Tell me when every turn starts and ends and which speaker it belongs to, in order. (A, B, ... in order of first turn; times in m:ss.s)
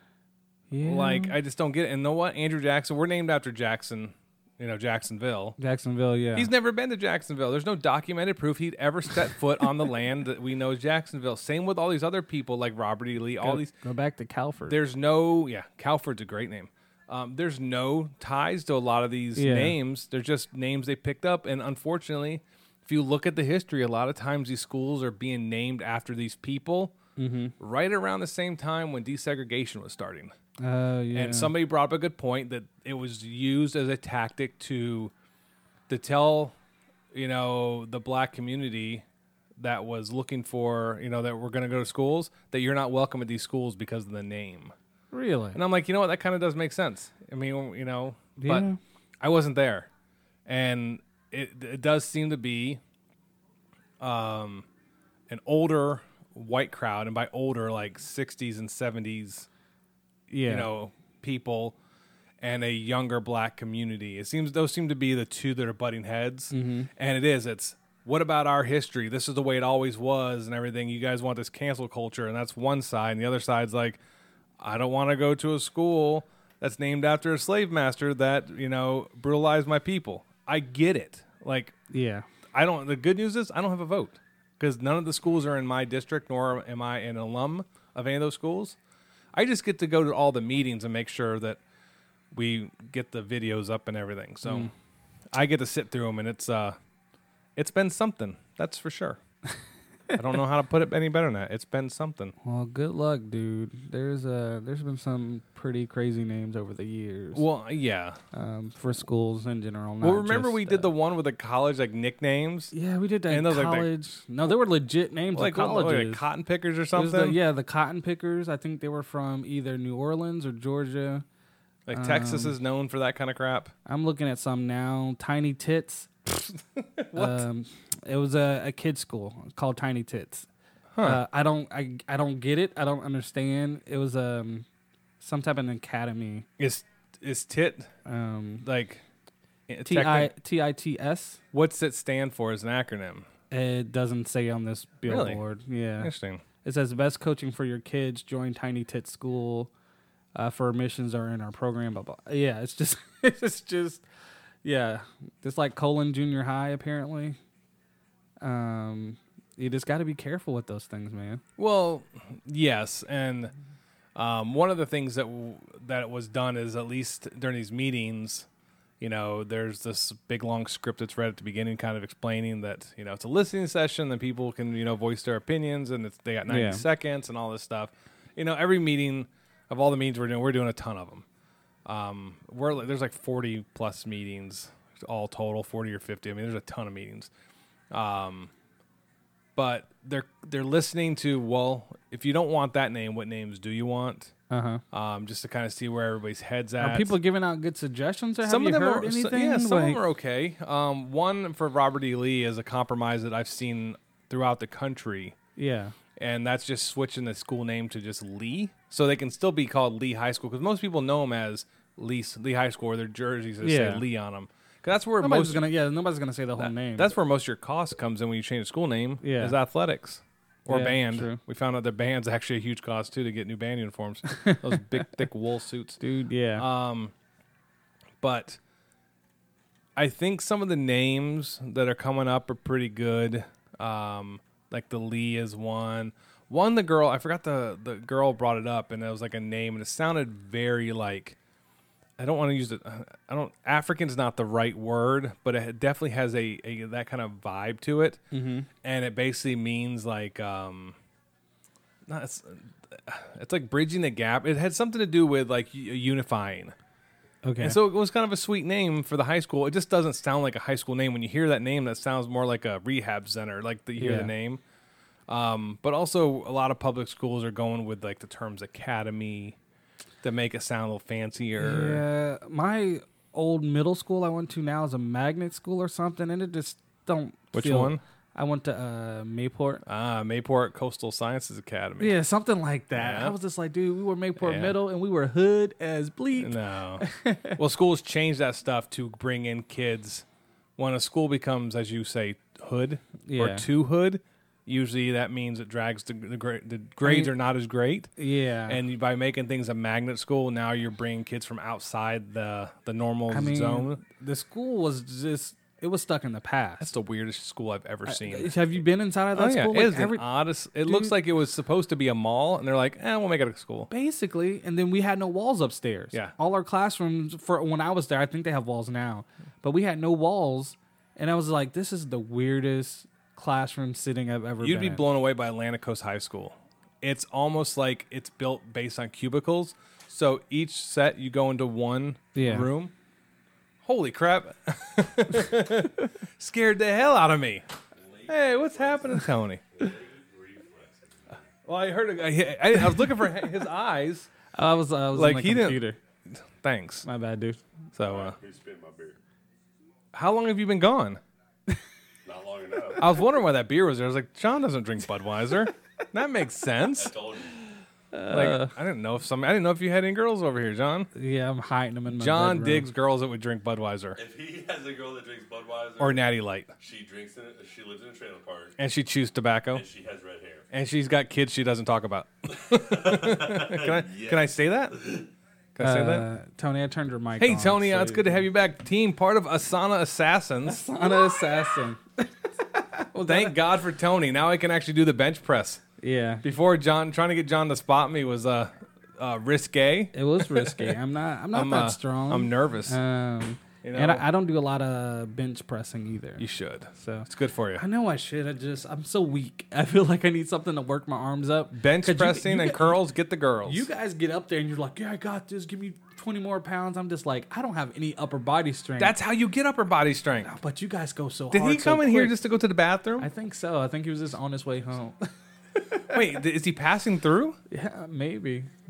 0:00.7-0:01.4 A
0:00.8-0:05.6 B
0:05.6-0:06.5 A
0:06.3-0:13.7 B
0:13.4-0:14.8 A
0:14.7-0:26.9 B
0:19.4-0:19.7 A
0:27.2-0:27.5 A
0:27.6-0:30.3 B
0:30.6-0:31.5 A
0:31.1-0:35.1 B
0:35.9-0:36.5 B
0:37.1-0:39.0 B
0:39.6-0:44.7 B
0:45.1-0:45.6 A
0:45.5-0:48.7 B
0:48.4-0:48.8 A
0:49.2-0:49.9 B
0:50.5-0:52.8 B
0:54.0-0:54.6 B
0:55.3-0:59.5 B
1:00.3-1:00.7 A
1:00.4-1:01.8 B
1:02.4-1:14.0 B
1:06.5-1:06.9 A
1:14.6-1:21.7 B
1:21.9-1:22.2 A
1:22.5-1:28.8 B
1:29.3-1:31.6 B
1:32.3-1:34.7 B
1:34.4-1:34.7 A
1:35.3-1:36.8 B
1:37.6-1:39.2 B
1:40.1-1:42.3 B
1:42.4-1:47.4 A
1:47.3-1:48.2 B
1:48.3-1:50.9 A
1:50.0-1:52.7 B
1:52.7-1:56.2 A
1:53.3-1:53.9 B
1:55.3-1:57.4 B
1:56.9-2:01.2 A
2:01.9-2:03.7 B
2:01.9-2:02.5 A
2:03.8-2:06.5 A
2:07.0-2:07.4 B
2:07.1-2:10.5 A
2:10.9-2:11.2 B
2:11.0-2:14.6 A
2:15.2-2:16.4 A
2:16.6-2:17.9 B
2:18.1-2:18.6 A
2:18.6-2:19.0 B
2:19.7-2:20.3 B
2:19.8-2:21.4 A
2:21.5-2:23.2 B
2:23.5-2:26.1 A
2:25.0-2:25.4 B
2:26.0-2:26.4 B
2:26.6-2:29.7 A
2:30.3-2:34.0 A
2:34.6-2:37.4 A
2:38.4-2:41.4 A
2:41.6-2:43.5 B
2:44.2-2:48.4 B
2:49.0-3:01.2 B
2:56.5-2:56.8 A
3:01.8-3:07.3 B
3:07.9-3:08.5 B
3:09.6-3:14.3 B
3:14.5-3:14.8 A
3:14.9-3:17.2 B
3:16.8-3:20.0 A
3:18.4-3:25.4 B
3:25.6-3:25.9 A
3:26.2-3:35.6 B
3:33.6-3:34.0 A
3:35.2-3:37.1 A
3:36.6-3:46.0 B
3:39.2-3:39.5 A
3:40.7-3:41.4 A
3:46.0-3:46.6 A
3:46.6-3:47.1 B
3:48.2-3:48.6 B
3:50.0-4:01.4 B
4:02.2-4:08.2 B
4:08.3-4:08.7 A
4:08.8-4:10.9 B
4:12.1-4:16.7 B
4:17.4-4:17.8 A
4:17.6-4:24.6 B
4:24.0-4:24.3 A
4:25.3-4:29.6 B
4:30.2-4:32.0 B
4:31.6-4:39.8 A
4:37.5-4:38.0 B
4:39.8-4:42.2 B
4:42.0-4:47.6 A
4:42.9-4:43.3 B
4:44.4-4:44.8 B
4:46.4-4:47.0 B
4:47.6-4:50.2 B
4:50.8-4:58.1 B
4:53.2-4:53.6 A
4:57.0-4:57.3 A
4:58.2-4:58.8 A
4:58.7-5:04.0 B
5:03.3-5:06.9 A
5:06.8-5:08.5 B
5:08.0-5:10.2 A
5:09.3-5:13.9 B
5:10.8-5:11.1 A
5:13.9-5:25.0 A
5:24.6-5:32.9 B
5:32.3-5:32.7 A
5:33.8-5:37.6 B
5:38.0-5:39.1 C
5:38.3-5:39.6 B
5:39.8-5:41.4 C
5:41.6-5:44.3 B
5:44.6-5:46.0 A
5:45.1-5:45.8 B
5:46.6-5:47.0 B
5:47.0-5:47.6 A
5:47.9-5:48.4 B
5:48.0-5:49.2 C
5:50.1-5:51.2 B
5:52.2-5:53.0 C
5:53.0-5:57.1 B
5:56.9-5:57.5 C
5:58.1-5:58.7 A
5:58.3-6:01.1 B
6:01.1-6:02.9 A
6:02.1-6:04.2 B
6:04.2-6:06.2 C
6:06.0-6:06.7 B
6:06.8-6:08.7 C
6:08.8-6:09.8 B
6:09.7-6:10.6 C
6:10.7-6:15.1 B
6:12.7-6:14.5 C
6:15.8-6:16.2 B
6:15.8-6:18.4 A
6:17.4-6:20.8 B
6:20.6-6:23.5 A
6:23.2-6:25.8 B
6:26.0-6:26.4 A
6:26.4-6:30.9 B
6:30.1-6:36.4 A
6:31.5-6:33.0 B
6:33.8-6:34.2 B
6:36.4-6:37.8 B
6:37.0-6:37.2 A
6:37.8-6:43.0 A
6:41.7-6:43.9 B
6:43.6-6:49.1 A
6:49.0-6:50.5 B
6:50.4-6:52.4 A
6:51.5-6:53.3 B
6:53.2-6:56.2 A
6:56.1-6:57.6 B
6:57.7-6:58.7 A